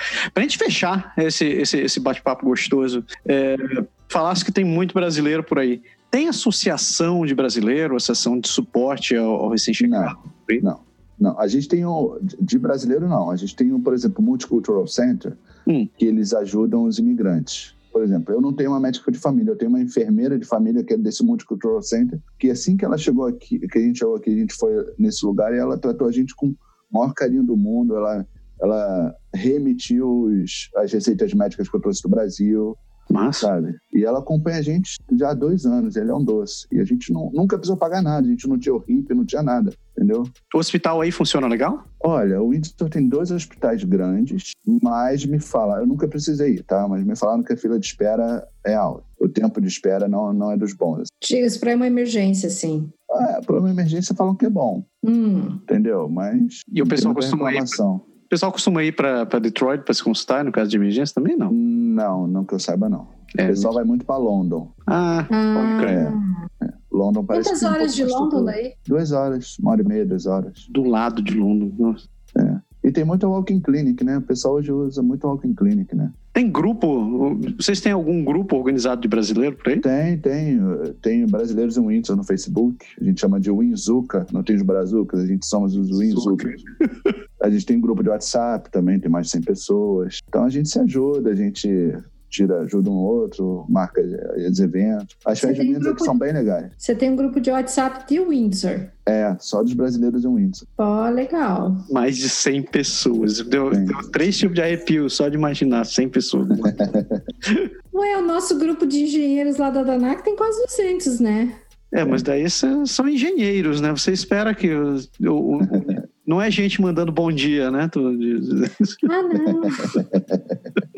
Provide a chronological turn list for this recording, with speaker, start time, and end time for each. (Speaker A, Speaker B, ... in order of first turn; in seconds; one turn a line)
Speaker A: 0.3-10.6
Speaker B: 9.8-15.4
Speaker B: 16.0-32.8
Speaker A: 33.1-33.5
Speaker B: 33.4-40.3
Speaker A: 40.5-41.8
Speaker B: 42.0-51.1
Speaker C: 51.2-52.9
Speaker B: 53.1-54.9
Speaker C: 55.0-55.6
Speaker B: 55.7-58.1
Speaker A: 56.7-57.8
Speaker A: 58.3-61.5
Speaker B: 61.5-64.7
Speaker A: 63.4-63.7
Speaker A: 64.9-66.0
Speaker C: 65.3-66.4
Speaker B: 65.8-70.7
Speaker C: 67.3-68.7
Speaker A: 70.7-72.0
Speaker B: 72.3-76.2
Speaker A: 76.3-79.8
Speaker B: 79.8-86.6
Speaker A: 86.0-86.6
Speaker B: 87.4-96.7
Speaker C: 95.4-96.2
Speaker C: 96.8-98.9
Speaker B: 99.1-100.7
Speaker C: 100.8-101.8
Speaker A: 101.9-106.9
Speaker B: 103.7-104.0
Speaker B: 106.7-107.2
Speaker C: 107.9-111.6
Speaker A: 111.9-119.0
Speaker B: 115.6-116.0
Speaker C: 119.1-120.0
Speaker B: 119.8-120.6